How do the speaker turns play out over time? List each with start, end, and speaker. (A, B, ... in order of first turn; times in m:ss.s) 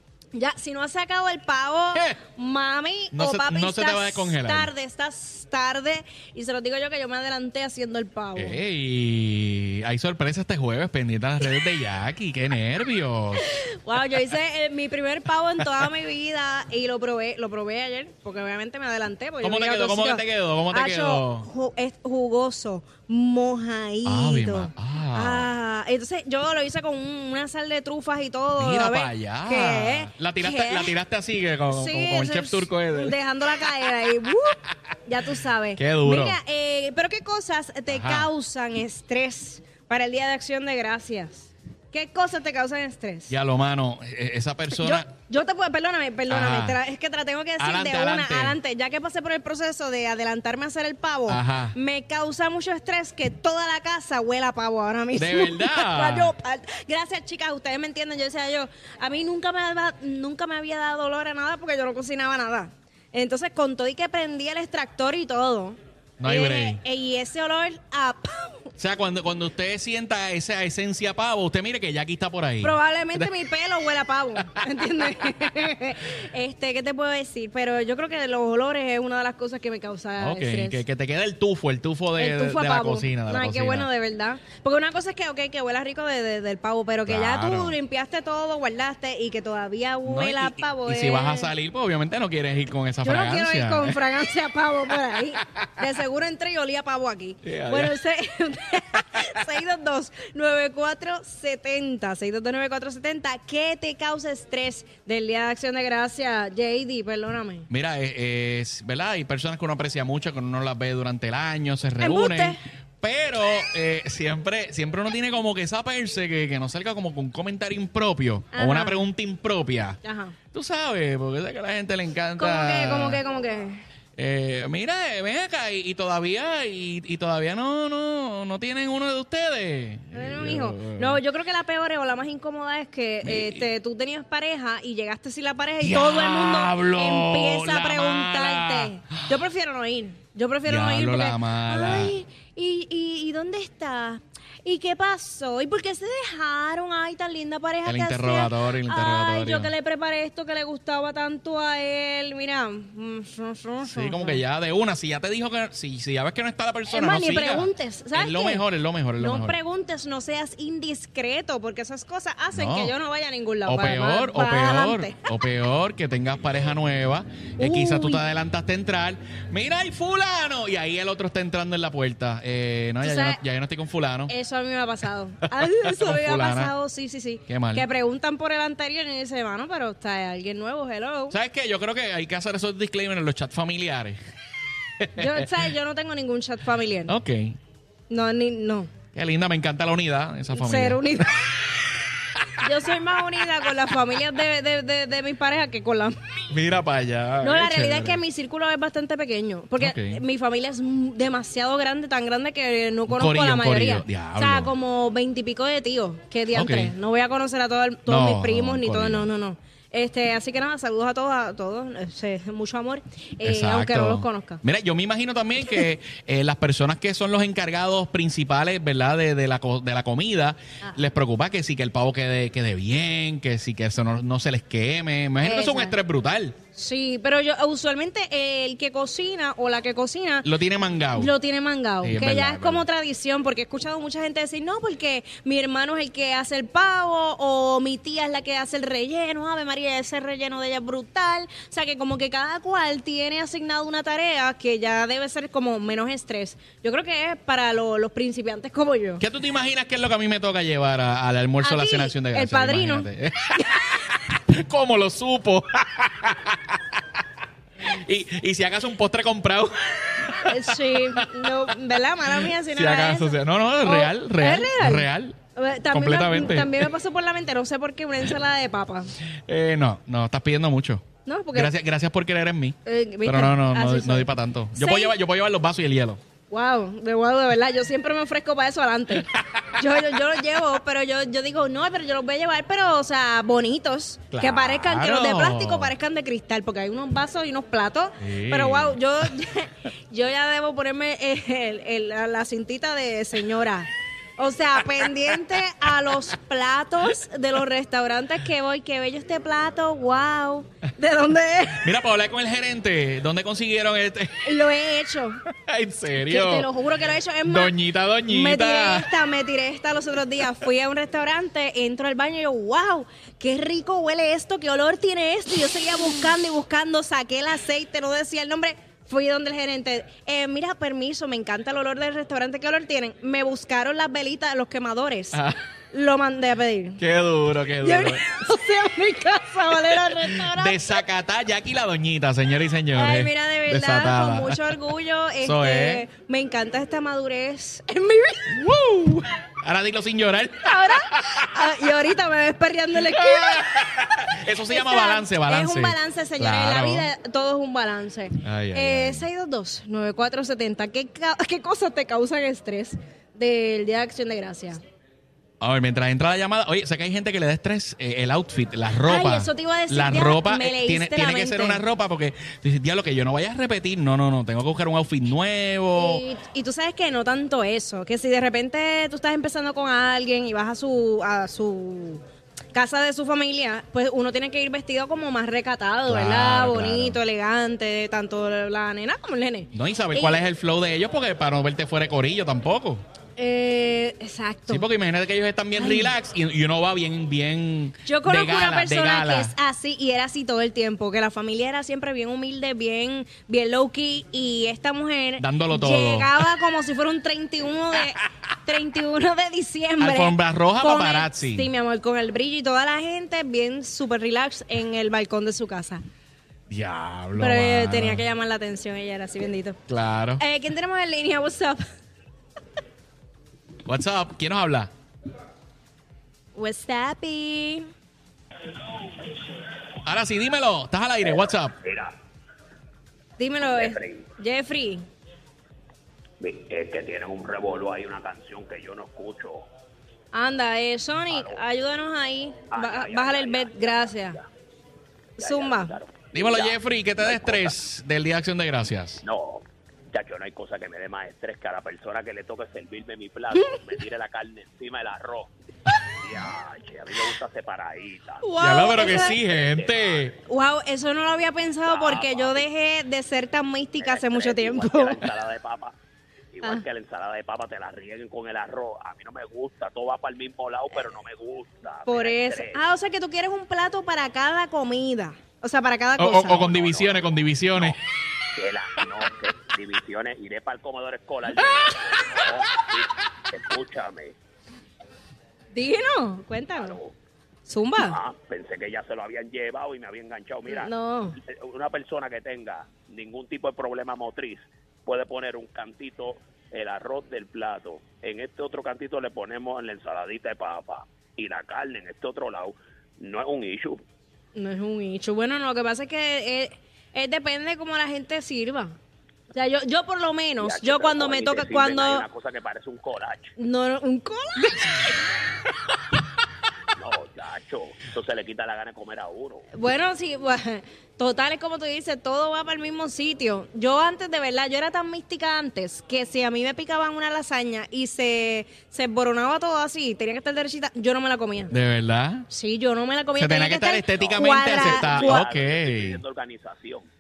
0:00.3-0:08.6 A
0:03.1-0:04.7 B
0:08.4-0:13.4 B
0:13.4-0:30.9 A
0:19.4-0:21.5 B
0:24.0-0:25.5 B
0:28.6-0:33.7 B
0:31.7-0:43.3 A
0:35.8-0:36.4 B
0:37.9-0:38.3 B
0:43.3-0:45.1 B
0:44.7-1:08.7 A
0:46.3-0:46.8 B
0:47.6-0:48.6 B
0:51.3-0:51.7 B
0:55.2-0:56.3 B
1:06.2-1:06.8 B
1:08.8-1:13.3 B
1:12.6-1:20.8 A
1:20.2-1:23.9 B
1:22.2-1:31.5 A
1:27.0-1:27.8 B
1:30.0-1:34.0 B
1:33.0-1:47.7 A
1:37.4-1:37.9 B
1:47.7-2:00.0 B
1:52.0-1:52.6 A
1:58.5-1:59.0 A
2:00.0-2:00.4 A
2:00.5-2:03.2 B
2:02.4-2:03.8 A
2:04.2-2:11.2 B
2:10.1-2:34.4 A
2:13.2-2:13.6 B
2:15.8-2:19.3 B
2:20.6-2:22.1 B
2:27.8-2:29.7 B
2:33.8-2:39.6 B
2:36.9-2:38.6 A
2:39.2-2:45.3 A
2:42.5-2:42.9 B
2:43.6-2:54.3 B
2:47.6-2:48.2 A
2:53.0-2:53.4 A
2:54.3-3:01.4 A
2:55.4-2:56.7 B
2:57.5-2:57.8 B
3:01.3-3:04.2 B
3:05.0-3:05.5 B
3:05.1-3:07.1 A
3:07.1-3:07.6 B
3:08.1-3:08.9 A
3:09.1-3:11.4 B
3:10.5-3:11.5 A
3:12.3-3:12.7 B
3:12.6-3:16.4 A
3:16.5-3:18.2 B
3:17.4-3:34.6 A
3:19.8-3:20.2 B
3:23.1-3:24.7 B
3:26.5-3:26.9 B
3:28.1-3:29.3 B
3:33.4-3:46.6 B
3:45.4-3:46.0 A
3:46.7-3:50.5 A
3:50.4-3:51.3 B
3:51.1-4:09.2 A
3:52.0-3:52.8 B
4:09.2-4:17.0 B
4:11.6-4:14.2 A
4:17.8-4:21.7 B
4:20.4-4:29.1 A
4:22.4-4:25.4 B
4:25.9-4:26.9 B
4:29.5-4:31.0 B
4:31.2-4:31.7 A
4:31.5-4:36.2 B
4:32.8-4:35.2 A
4:36.5-5:01.9 A
4:39.3-4:39.6 B
4:44.3-4:45.9 B
4:48.2-4:49.0 B
5:01.8-5:04.6 B
5:04.4-5:05.4 A
5:05.5-5:06.7 B
5:06.2-5:07.7 A
5:07.4-5:09.1 B
5:08.3-5:25.4 A
5:25.3-5:25.6 B
5:25.9-5:27.0 A
5:27.0-5:28.3 B
5:27.8-5:30.8 A
5:30.0-5:34.6 B
5:32.9-5:38.7 A
5:35.4-5:36.0 B
5:38.5-5:41.7 B
5:40.6-5:43.7 A
5:43.0-5:47.1 B
5:44.7-5:54.8 A
5:48.4-5:49.3 B
5:55.6-6:06.2 B
5:59.0-6:01.8 A
6:06.0-6:12.2 A
6:12.7-6:20.4 A
6:16.1-6:17.2 B
6:19.7-6:23.0 B
6:23.4-6:24.8 A
6:24.7-6:29.5 B
6:25.7-6:26.1 A
6:28.0-6:46.0 A
6:35.4-6:36.5 B
6:40.0-6:41.7 B
6:46.7-6:48.2 B
6:47.4-6:49.8 A
6:49.9-6:50.4 B
6:50.4-6:51.8 A
6:53.8-6:54.9 B
6:56.5-6:57.9 A
7:00.0-7:01.8 B
7:01.8-7:02.1 C
7:03.4-7:05.0 A
7:03.6-7:04.3 C
7:06.4-7:09.7 C
7:10.3-7:14.4 A
7:11.3-7:11.6 C
7:12.7-7:14.4 C
7:15.4-7:15.9 A
7:15.4-7:17.8 C
7:16.3-7:19.2 B
7:19.2-7:25.5 C
7:26.2-7:30.4 C
7:28.4-7:29.4 A
7:28.6-7:30.3 B
7:30.5-7:35.2 A
7:31.8-7:32.6 C
7:34.0-7:36.0 C
7:36.5-7:42.8 C
7:42.1-7:46.7 A
7:46.2-7:48.0 B
7:46.5-7:48.0 C
7:48.5-7:54.3 C
7:55.7-7:57.0 A
7:56.8-7:57.1 C
7:57.6-7:58.2 A
7:58.0-8:14.0 C
8:00.7-8:01.4 A
8:14.5-8:19.0 A
8:19.5-8:22.2 A
8:20.6-8:23.5 C
8:23.6-8:25.2 A
8:27.0-8:29.7 C
8:29.7-8:41.7 A
8:41.7-8:42.4 B
8:42.5-8:45.4 A
8:43.4-8:46.2 B
8:44.1-8:47.1 C